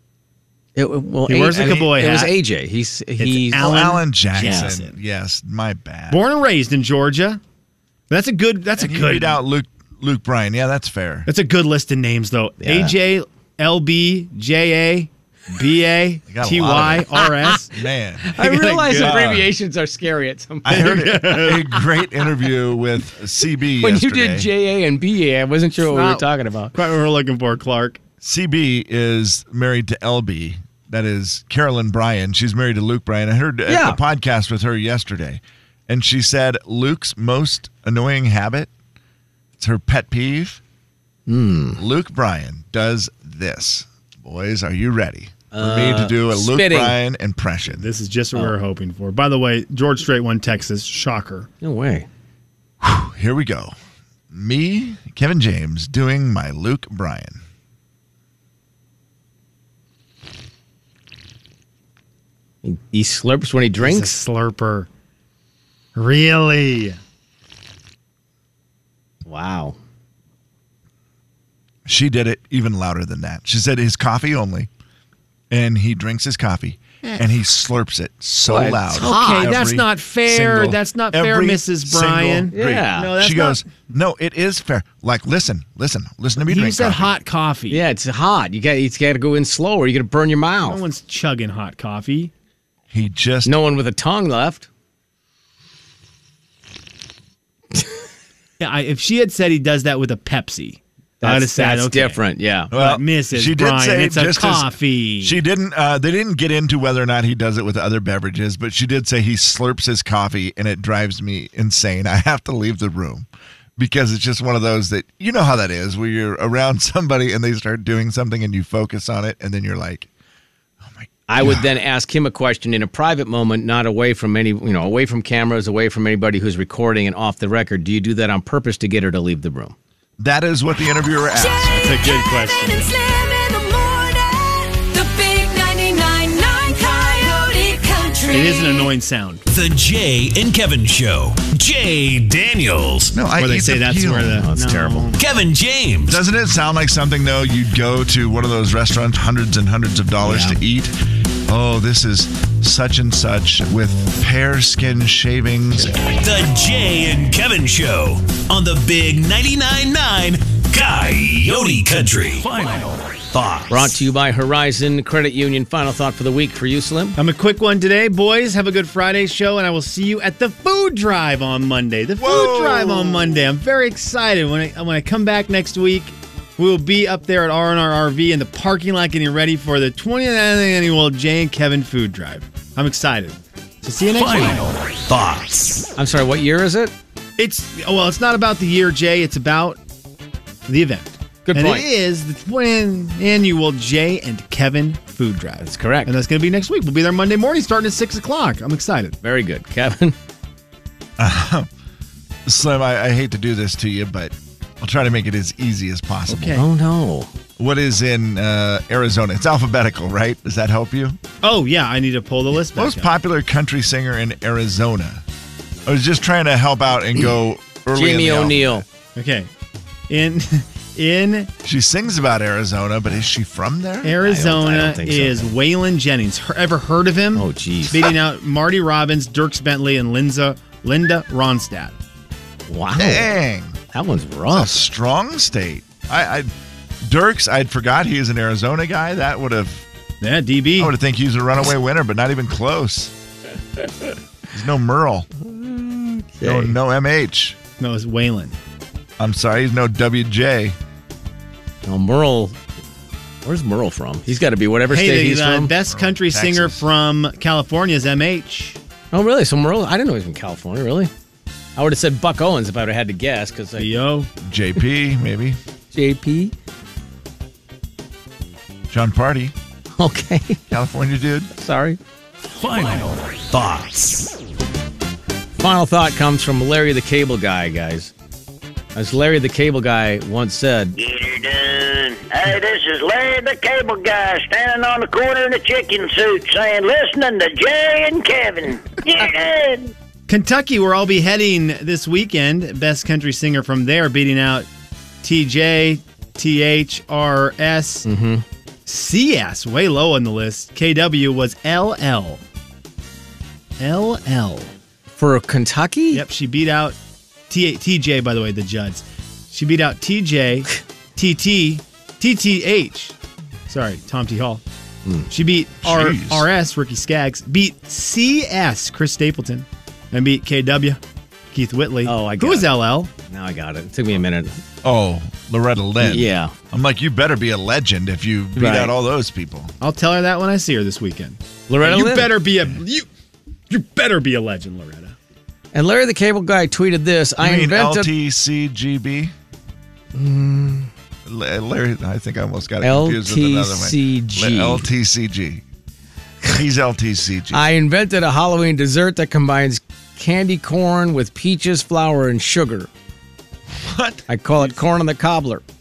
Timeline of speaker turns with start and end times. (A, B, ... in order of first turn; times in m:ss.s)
0:00.8-0:04.6 A
0:01.3-0:02.4 B
0:01.6-0:01.9 C
0:03.2-0:04.9 B
0:03.5-0:06.2 C
0:06.1-0:07.4 B
0:08.1-0:09.4 B
0:08.8-0:11.3 C
0:11.3-0:17.8 B
0:12.6-0:12.9 A
0:16.3-0:18.4 C
0:18.3-0:21.5 A
0:18.4-0:19.2 B
0:18.9-0:19.5 C
0:20.6-0:24.5 C
0:20.7-0:21.9 B
0:23.8-0:26.7 A
0:25.8-0:28.0 B
0:28.2-0:38.7 C
0:33.7-0:34.0 A
0:39.6-0:40.6 C
0:41.3-0:41.8 A
0:41.8-0:47.9 C
0:45.5-0:47.0 A
0:47.7-0:51.5 B
0:51.6-0:52.1 A
0:52.8-0:53.8 C
0:54.3-0:57.4 C
1:02.6-1:04.2 A
1:03.8-1:04.9 B
1:05.9-1:07.0 B
1:09.2-1:09.8 A
1:11.9-1:14.7 C
1:15.5-1:27.1 C
1:18.5-1:19.6 A
1:18.9-1:23.7 B
1:22.5-1:23.1 A
1:26.4-1:27.8 B
1:27.7-1:30.8 A
1:30.6-1:32.3 B
1:32.9-1:33.5 C
1:33.4-1:34.7 A
1:38.6-1:42.2 B
1:41.2-1:42.7 A
1:42.7-2:00.1 C
1:42.7-1:45.4 B
2:00.8-2:01.7 C
2:01.3-2:09.8 A
2:10.2-2:11.7 C
2:11.4-2:18.9 D
2:11.7-2:12.8 B
2:18.3-2:19.4 B
2:19.5-2:23.2 E
2:23.1-2:24.5 C
2:23.3-2:25.2 B
2:24.4-2:25.1 A
2:25.2-2:26.2 E
2:26.1-2:30.9 C
2:30.2-2:30.6 A
2:31.5-2:36.0 C
2:35.9-2:43.9 E
2:43.7-2:47.2 A
2:47.2-3:04.7 B
2:52.2-2:53.5 C
3:04.1-3:05.8 E
3:06.0-3:06.9 A
3:07.4-3:09.8 B
3:10.7-3:19.2 B
3:11.5-3:11.9 A
3:15.6-3:16.1 A
3:19.2-3:20.2 A
3:21.2-3:21.7 C
3:22.5-3:26.6 C
3:26.3-3:26.7 B
3:26.6-3:27.3 A
3:27.6-3:31.2 C
3:31.4-3:33.1 B
3:32.7-3:35.2 C
3:35.9-3:38.8 C
3:37.9-3:38.8 A
3:39.1-3:39.5 B
3:40.1-3:41.5 B
3:41.6-3:44.2 C
3:44.0-3:51.9 B
3:44.2-3:45.5 A
3:47.3-3:48.1 A
3:52.7-3:53.4 A
3:53.0-3:53.8 C
3:53.9-3:54.8 A
3:54.5-3:56.5 C
3:57.0-3:59.9 C
4:00.2-4:00.9 B
4:00.8-4:03.1 C
4:04.5-4:05.3 C
4:05.4-4:06.8 A
4:06.4-4:07.6 C
4:07.8-4:08.6 B
4:09.2-4:10.8 C
4:11.8-4:12.6 A
4:13.4-4:15.7 A
4:14.9-4:18.8 B
4:15.8-4:16.9 C
4:19.1-4:21.1 A
4:21.8-4:23.9 A
4:23.8-4:24.3 B
4:24.4-4:25.6 C
4:25.9-4:26.5 A
4:28.9-4:29.5 C
4:29.9-4:30.6 A
4:30.7-4:31.5 C
4:31.6-4:32.0 A
4:32.6-4:34.3 E
4:35.6-4:38.1 A
4:38.9-4:40.9 A
4:41.0-4:49.9 F
4:50.3-4:54.7 B
4:55.2-4:58.1 B
4:58.1-4:58.4 A
4:58.9-5:02.4 B
5:03.8-5:04.7 B
5:05.1-5:06.2 A
5:06.1-5:07.0 B
5:07.5-5:13.1 B
5:13.7-5:14.6 B
5:15.3-5:21.0 B
5:15.8-5:16.5 C
5:21.5-5:23.1 B
5:22.0-5:24.6 A
5:24.8-5:29.7 C
5:26.0-5:26.5 A
5:28.6-5:28.9 A
5:29.8-5:33.1 B
5:31.7-5:32.4 A
5:33.7-5:35.1 B
5:35.7-5:38.1 A
5:37.4-5:39.3 C
5:40.1-5:40.9 A
5:41.3-5:45.6 C
5:42.8-5:44.9 A
5:46.4-5:47.7 C
5:47.5-5:52.9 A
5:53.8-5:54.2 C
5:54.3-5:55.6 A